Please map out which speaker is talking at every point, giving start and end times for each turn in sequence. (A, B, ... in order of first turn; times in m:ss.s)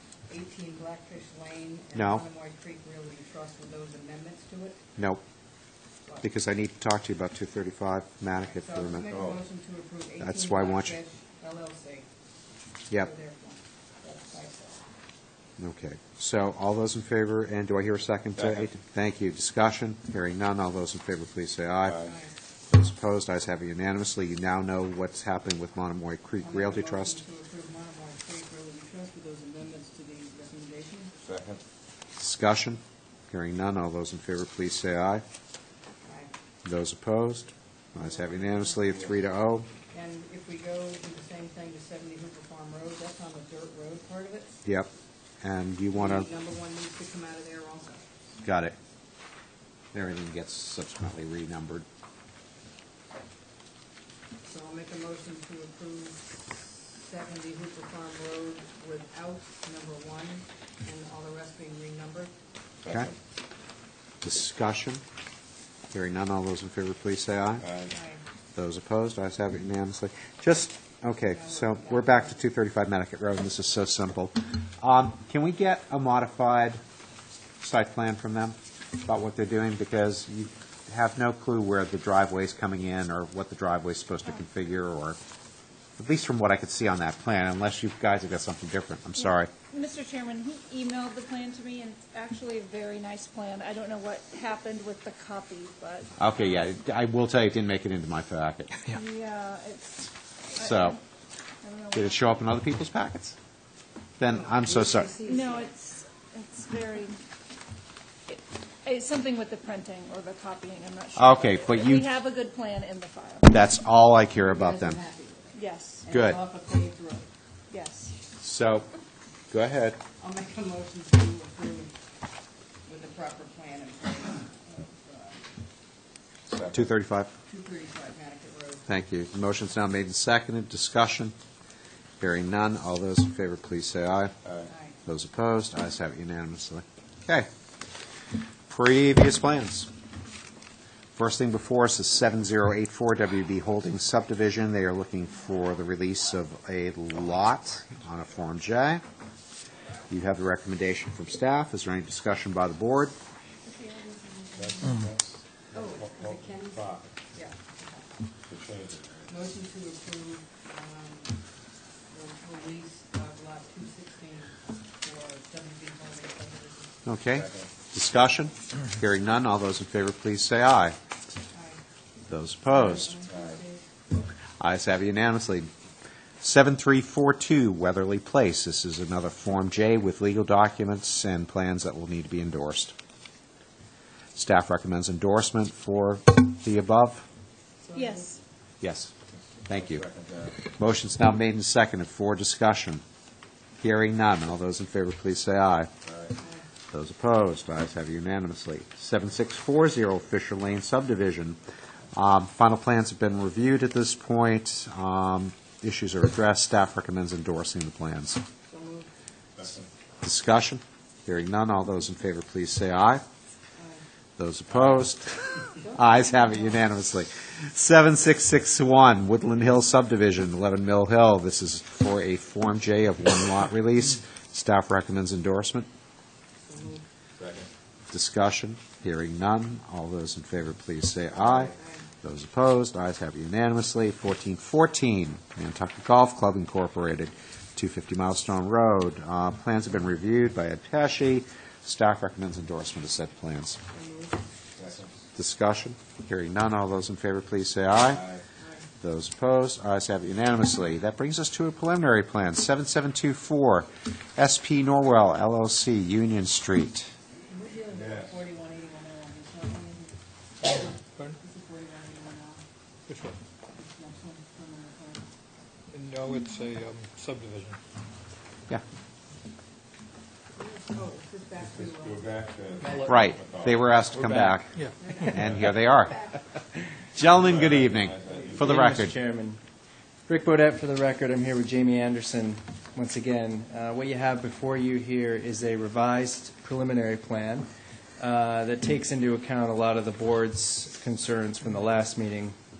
0:00.3-0:04.8 A
0:01.9-0:02.2 B
0:06.2-0:09.2 B
0:08.5-0:12.0 A
0:10.2-0:11.0 B
0:12.9-0:14.8 A
0:15.6-0:22.1 B
0:22.0-0:22.3 A
0:22.7-0:27.2 B
0:26.4-0:31.1 A
0:31.2-0:31.6 C
0:32.2-0:35.2 B
0:36.0-0:36.3 A
0:36.6-0:39.7 B
0:38.0-0:38.8 A
0:39.9-0:44.6 A
0:45.4-0:46.3 B
0:45.9-0:48.0 A
0:48.4-0:48.7 B
0:49.9-0:51.8 B
0:54.4-1:02.3 A
1:02.8-1:03.1 C
1:04.2-1:05.0 B
1:05.9-1:07.6 B
1:07.6-1:07.9 C
1:07.9-1:08.2 A
1:08.6-1:16.8 B
1:11.3-1:12.4 A
1:17.6-1:25.2 B
1:26.0-1:29.5 B
1:29.2-1:36.3 D
1:36.2-1:38.7 B
1:38.9-1:41.0 D
1:40.5-1:41.0 B
1:41.6-1:42.3 D
1:41.9-1:43.4 B
1:44.2-1:45.2 B
1:44.3-1:45.7 A
1:45.2-1:47.2 D
1:48.3-1:53.5 D
1:51.2-1:52.1 B
1:53.4-1:55.0 B
1:54.4-1:57.3 A
1:55.5-1:56.0 D
1:56.1-1:56.4 B
1:57.7-1:58.1 D
1:58.4-1:58.9 B
1:59.5-2:00.0 B
2:00.2-2:01.9 A
2:02.8-2:05.5 A
2:06.5-2:06.8 C
2:06.6-2:07.3 B
2:07.5-2:08.9 A
2:08.9-2:11.3 B
2:12.2-2:14.3 B
2:14.7-2:15.0 A
2:15.0-2:17.5 B
2:18.7-2:19.9 B
2:21.2-2:29.0 B
2:30.1-2:33.1 B
2:33.9-2:34.6 A
2:34.5-2:37.0 C
2:35.7-2:38.2 A
2:38.5-2:39.3 C
2:39.3-2:41.4 A
2:42.1-2:47.0 A
2:47.0-2:51.0 B
2:47.4-2:47.7 C
2:51.5-2:51.8 A
2:52.3-2:53.2 B
2:52.7-2:53.8 A
2:54.6-2:55.7 B
2:56.4-3:02.9 B
3:04.4-3:07.2 B
3:07.8-3:08.4 A
3:07.9-3:08.4 D
3:08.8-3:09.1 B
3:09.7-3:10.0 B
3:09.7-3:10.6 C
3:10.6-3:13.0 B
3:13.8-3:15.9 B
3:16.1-3:16.3 C
3:16.4-3:16.6 A
3:16.9-3:21.6 B
3:22.1-3:28.4 B
3:28.7-3:29.1 A
3:29.6-3:29.9 C
3:30.2-3:33.2 B
3:33.8-3:34.0 A
3:34.4-3:45.9 B
3:35.8-3:36.8 A
3:46.6-3:47.0 A
3:47.4-3:47.7 C
3:48.1-4:03.8 B
3:51.4-3:52.1 A
4:03.9-4:04.4 A
4:04.8-4:05.1 C
4:05.4-4:08.2 B
4:08.1-4:08.4 C
4:08.6-4:08.9 A
4:09.0-4:17.1 B
4:17.5-4:20.1 A
4:18.0-4:18.4 C
4:21.4-4:22.6 A
4:23.1-4:23.4 E
4:23.7-4:25.2 A
4:25.9-4:27.8 E
4:30.6-4:32.2 A
4:31.7-4:33.9 C
4:33.1-4:34.7 B
4:34.8-4:35.2 E
4:35.0-4:35.4 A
4:35.3-4:36.2 B
4:37.1-4:39.1 B
4:37.4-4:38.8 C
4:38.8-4:39.6 F
4:40.3-4:47.7 F
4:48.2-4:52.5 F